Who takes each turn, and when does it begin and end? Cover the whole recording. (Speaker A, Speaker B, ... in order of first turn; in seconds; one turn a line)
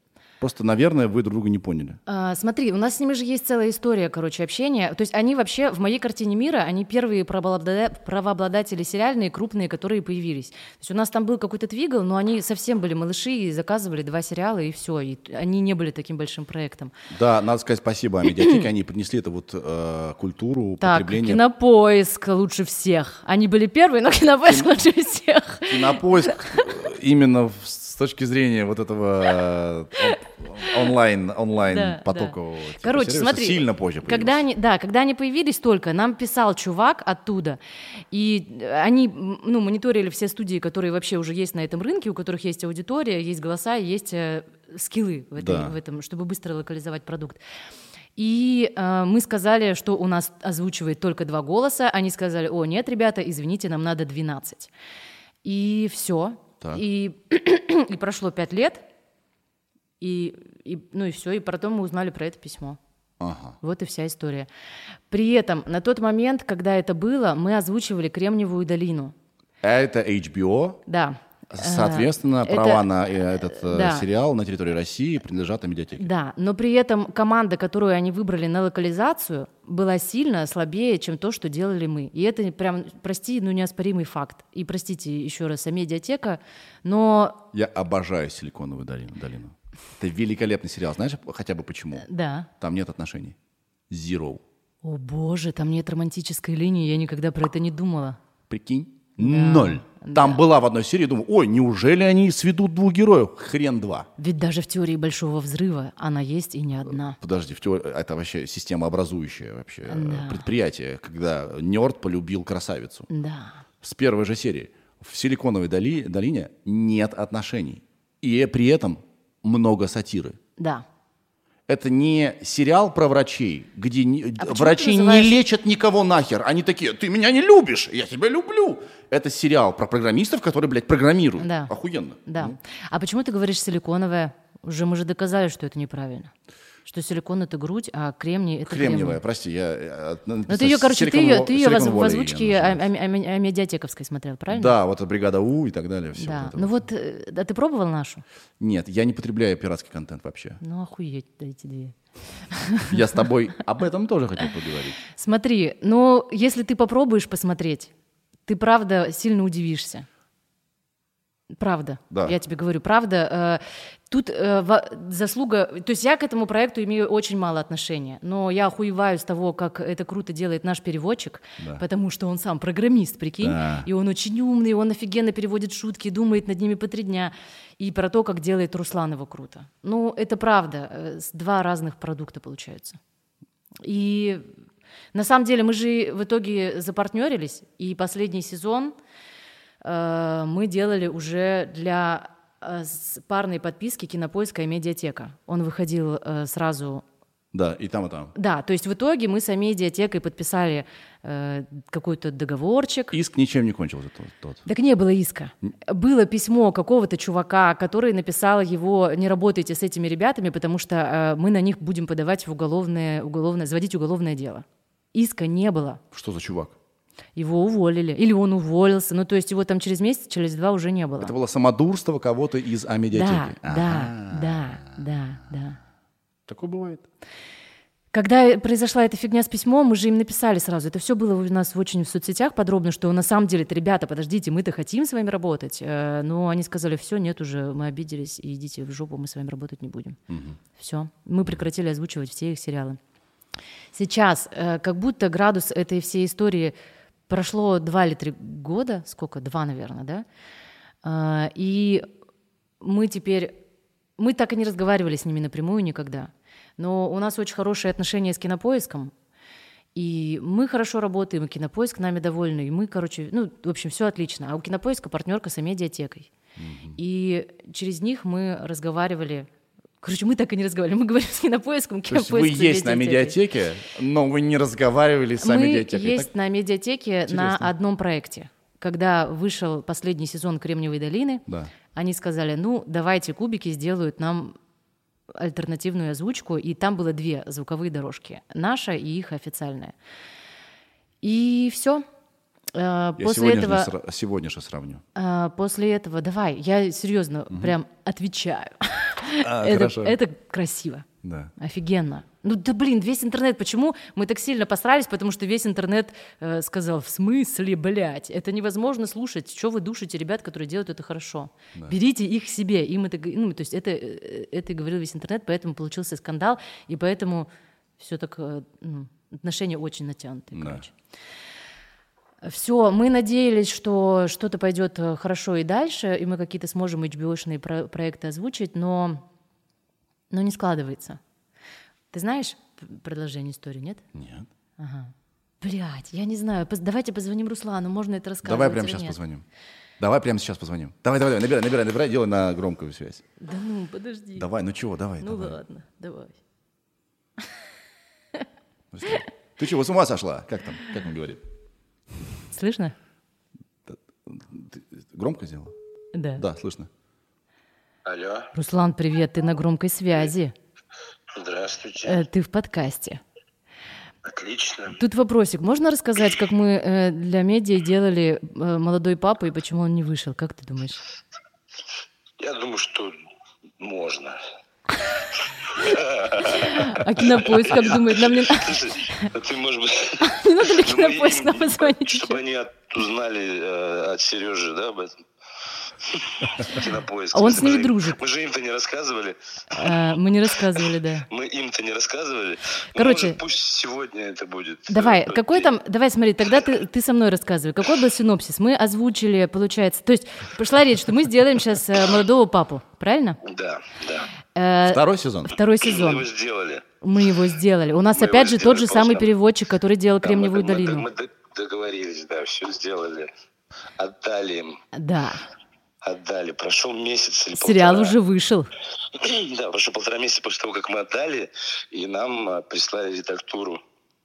Speaker A: 0.4-2.0
Speaker B: 2.1-16.9
Speaker A: 17.1-21.4
Speaker B: 20.8-26.7
Speaker A: 25.7-34.4
Speaker B: 30.1-30.9
Speaker B: 31.7-37.6
Speaker B: 38.1-47.4
Speaker A: 45.4-45.8
Speaker B: 48.2-54.7
Speaker B: 55.4-58.8
Speaker B: 60.0-62.8
Speaker A: 63.2-63.6
Speaker B: 63.6-64.5
Speaker B: 65.1-69.1
Speaker A: 69.6-70.8
Speaker B: 70.9-72.9
Speaker A: 71.5-76.1
Speaker B: 73.5-74.1
Speaker B: 76.0-87.4
Speaker A: 87.5-92.1
Speaker B: 92.0-92.5
Speaker A: 92.6-93.4
Speaker A: 93.9-94.4
Speaker B: 94.8-98.2
Speaker A: 98.5-104.1
Speaker B: 99.2-100.4
Speaker B: 104.2-107.2
Speaker A: 106.9-113.1
Speaker B: 109.9-110.5
Speaker B: 113.1-113.6
Speaker A: 113.8-120.4
Speaker B: 120.6-120.8
Speaker A: 121.7-132.6
Speaker B: 124.4-125.4
Speaker B: 131.4-131.7
Speaker B: 132.3-136.3
Speaker B: 136.9-139.2
Speaker A: 138.7-142.8
Speaker B: 140.5-144.8
Speaker A: 144.5-146.8
Speaker B: 146.2-148.2
Speaker A: 148.6-150.6
Speaker B: 150.6-153.0
Speaker A: 152.9-155.0
Speaker B: 155.1-157.9
Speaker B: 158.5-160.1
Speaker B: 161.5-183.0
Speaker A: 162.1-162.4
Speaker A: 171.6-171.8
Speaker A: 173.4-173.9
Speaker B: 183.8-184.5
Speaker B: 185.1-188.9
Speaker B: 189.8-197.0
Speaker A: 197.5-198.3
Speaker B: 198.3-203.2
Speaker A: 203.1-204.7
Speaker B: 204.7-216.0
Speaker A: 216.1-216.8
Speaker B: 217.4-221.3
Speaker A: 221.2-225.0
Speaker B: 223.1-225.8
Speaker A: 226.5-227.1
Speaker B: 228.1-240.2
Speaker A: 240.3-240.6
Speaker B: 240.8-243.0
Speaker B: 243.9-246.7
Speaker B: 247.3-250.2
Speaker B: 251.0-252.1
Speaker B: 252.8-253.6
Speaker B: 254.2-259.1
Speaker B: 259.9-266.3
Speaker A: 266.6-267.0
Speaker B: 267.0-269.5
Speaker B: 270.0-273.4
Speaker A: 272.1-276.3
Speaker B: 275.4-284.6
Speaker A: 277.3-277.7
Speaker B: 285.3-289.9
Speaker B: 291.2-292.0
Speaker B: 292.7-293.9
Speaker A: 293.2-295.0
Speaker B: 295.1-320.9
Speaker A: 299.4-300.2
Speaker A: 301.2-301.5
Speaker A: 320.5-320.8
Speaker B: 322.4-329.2
Speaker B: 330.3-331.2
Speaker B: 332.1-334.0
Speaker A: 334.1-334.5
Speaker B: 334.8-339.2
Speaker A: 338.4-339.4
Speaker A: 340.0-343.2
Speaker B: 343.4-344.5
Speaker A: 344.4-345.6
Speaker B: 345.2-346.4
Speaker A: 348.9-351.4
Speaker B: 352.5-352.9
Speaker A: 353.9-355.7
Speaker B: 356.1-356.4
Speaker A: 356.4-356.9
Speaker C: 358.1-358.5
Speaker B: 358.5-360.5
Speaker C: 361.3-362.2
Speaker B: 362.0-363.2
Speaker C: 364.2-365.0
Speaker B: 365.0-371.0
Speaker C: 372.4-373.1
Speaker C: 373.8-374.4
Speaker C: 375.7-385.1
Speaker B: 376.4-379.3
Speaker B: 380.2-382.4
Speaker C: 386.0-390.0
Speaker B: 387.3-388.2
Speaker B: 389.7-391.3
Speaker C: 390.8-395.7
Speaker B: 393.0-393.4
Speaker B: 394.9-403.4
Speaker C: 403.4-404.3
Speaker B: 404.6-406.3
Speaker A: 404.8-405.6
Speaker C: 405.8-406.9
Speaker B: 407.0-411.1
Speaker C: 408.1-409.3
Speaker C: 410.2-413.3
Speaker C: 414.0-414.8
Speaker B: 414.9-415.4
Speaker C: 416.0-418.2
Speaker B: 417.6-418.7
Speaker C: 419.1-423.8